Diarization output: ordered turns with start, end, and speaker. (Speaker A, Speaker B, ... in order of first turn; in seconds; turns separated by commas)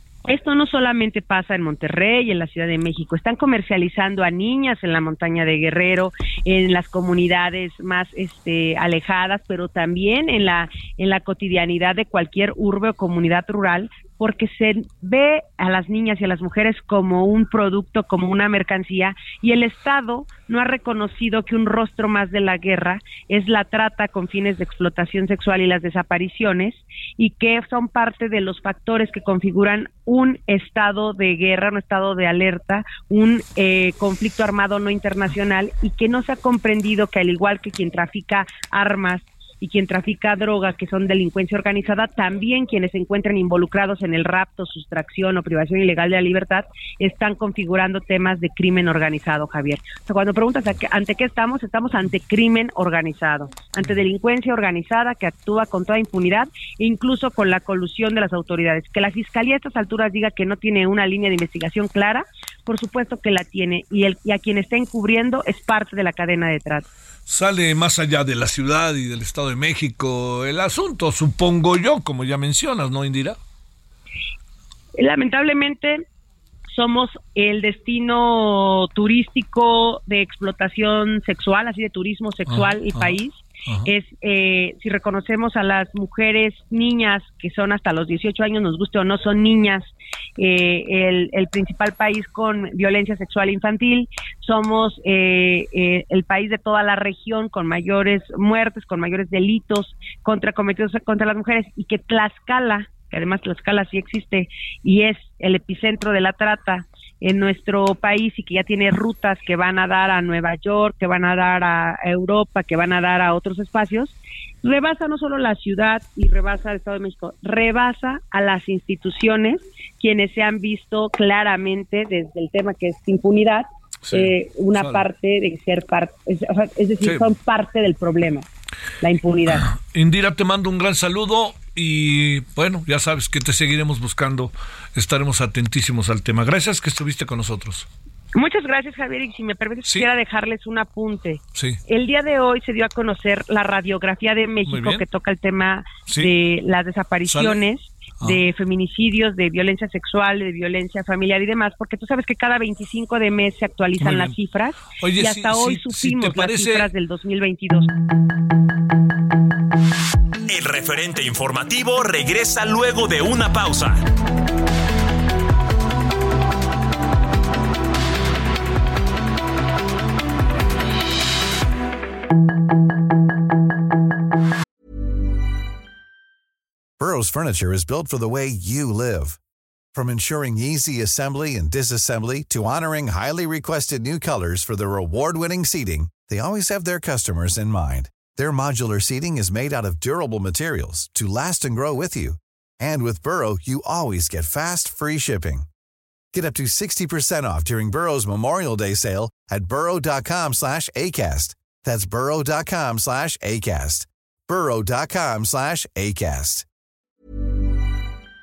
Speaker A: 0.2-66.8, Speaker B: 67.3-73.4, Speaker A: 75.0-76.0, Speaker A: 76.7-128.5, Speaker B: 82.5-83.1, Speaker B: 124.1-125.0, Speaker A: 129.0-129.7, Speaker B: 129.5-137.9, Speaker A: 138.3-157.9, Speaker B: 139.8-140.1, Speaker B: 141.6-141.8, Speaker B: 144.7-145.0, Speaker B: 147.3-147.6, Speaker B: 154.0-154.3, Speaker B: 155.0-156.9, Speaker C: 160.5-164.0, Speaker D: 177.0-179.4, Speaker D: 179.9-195.7, Speaker D: 196.3-206.7